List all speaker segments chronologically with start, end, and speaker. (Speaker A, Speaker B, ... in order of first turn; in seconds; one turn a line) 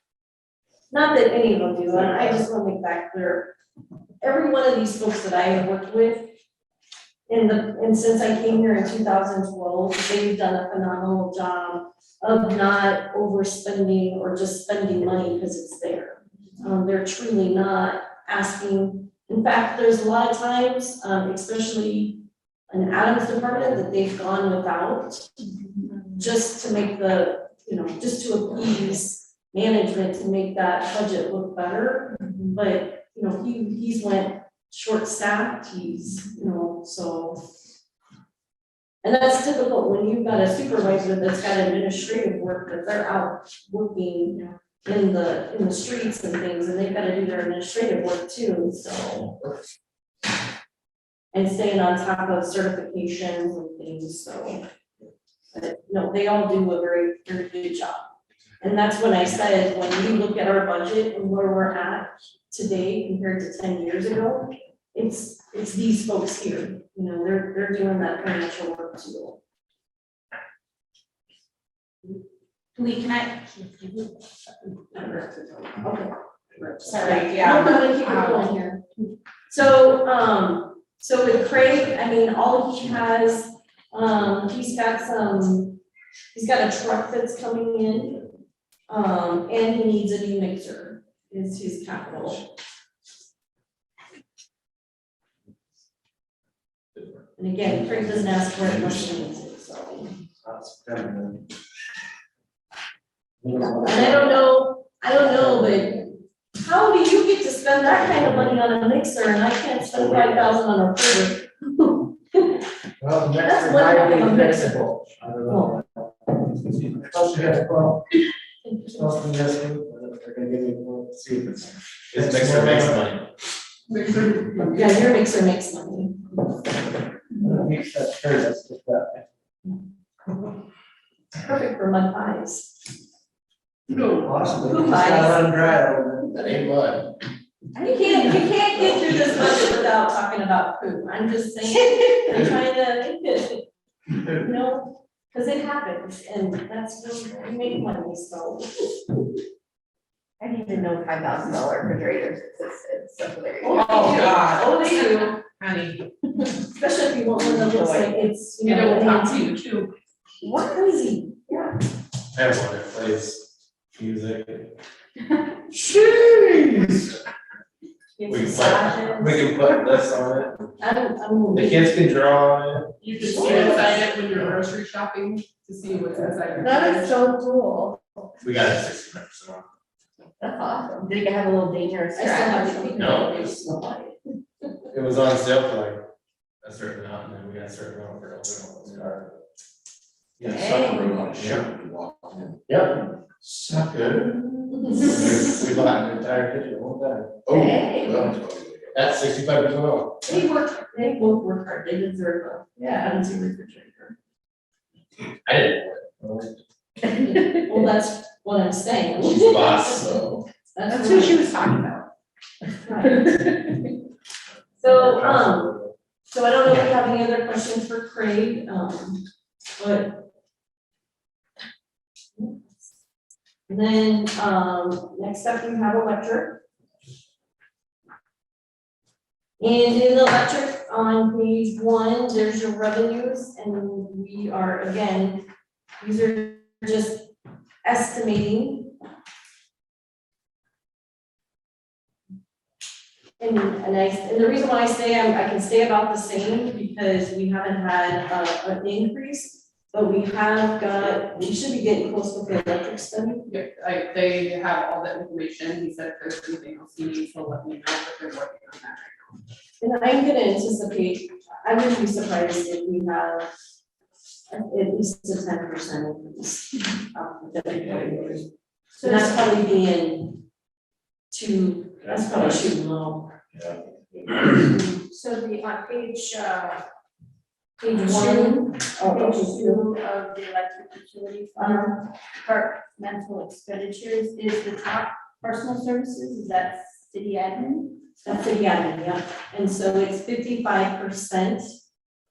Speaker A: 0.9-3.5
Speaker A: 4.2-6.3
Speaker A: 7.3-25.3
Speaker A: 26.1-37.4
Speaker A: 39.0-49.4
Speaker A: 51.3-54.6
Speaker A: 55.5-69.4
Speaker B: 72.8-73.9
Speaker A: 74.9-78.8
Speaker B: 76.9-77.8
Speaker C: 77.1-78.2
Speaker A: 79.5-85.8
Speaker A: 86.3-88.3
Speaker A: 88.9-92.4
Speaker A: 97.4-100.1
Speaker D: 100.4-101.4
Speaker D: 103.4-104.3
Speaker A: 103.7-112.6
Speaker D: 113.0-115.9
Speaker A: 113.4-114.8
Speaker A: 115.5-115.8
Speaker D: 116.9-118.0
Speaker A: 118.6-119.2
Speaker D: 118.9-123.0
Speaker E: 122.1-123.2
Speaker C: 123.9-125.1
Speaker A: 124.7-126.3
Speaker D: 127.4-129.2
Speaker A: 131.4-132.7
Speaker C: 133.9-134.8
Speaker D: 134.2-136.3
Speaker A: 134.6-135.7
Speaker E: 136.3-137.1
Speaker F: 137.7-139.5
Speaker A: 137.8-143.6
Speaker A: 144.2-148.9
Speaker F: 150.4-154.0
Speaker A: 153.6-155.4
Speaker C: 153.7-156.0
Speaker A: 156.4-159.6
Speaker F: 157.4-158.2
Speaker C: 158.6-159.9
Speaker A: 160.4-161.7
Speaker E: 162.3-164.7
Speaker A: 165.7-166.7
Speaker A: 168.2-169.5
Speaker E: 168.3-170.6
Speaker A: 170.8-172.0
Speaker E: 171.5-172.9
Speaker C: 173.0-177.2
Speaker F: 173.3-173.9
Speaker F: 176.6-178.3
Speaker E: 178.4-179.7
Speaker F: 180.4-183.2
Speaker A: 182.1-184.1
Speaker E: 183.0-183.6
Speaker E: 184.9-186.0
Speaker E: 186.6-189.3
Speaker F: 190.4-191.3
Speaker G: 190.4-192.6
Speaker E: 192.7-192.9
Speaker G: 193.4-194.4
Speaker E: 194.9-196.1
Speaker D: 196.0-197.5
Speaker G: 197.5-199.1
Speaker F: 197.5-198.3
Speaker E: 198.9-200.2
Speaker A: 200.2-204.1
Speaker F: 202.8-203.1
Speaker E: 205.4-206.2
Speaker A: 207.2-210.2
Speaker E: 209.2-210.4
Speaker A: 210.7-211.4
Speaker C: 210.9-212.0
Speaker A: 212.8-213.3
Speaker A: 214.8-215.7
Speaker D: 215.1-215.5
Speaker A: 216.3-219.2
Speaker A: 219.8-220.3
Speaker A: 222.3-222.6
Speaker A: 223.7-226.6
Speaker A: 229.6-235.4
Speaker A: 236.0-237.3
Speaker A: 237.8-238.9
Speaker A: 243.4-253.5
Speaker C: 253.5-259.4
Speaker A: 259.8-263.5
Speaker A: 264.5-268.5
Speaker B: 268.9-269.4
Speaker A: 269.0-270.4
Speaker A: 271.3-273.3
Speaker B: 274.1-276.8
Speaker A: 277.8-279.9
Speaker B: 277.9-288.0
Speaker A: 281.6-282.0
Speaker A: 288.2-291.7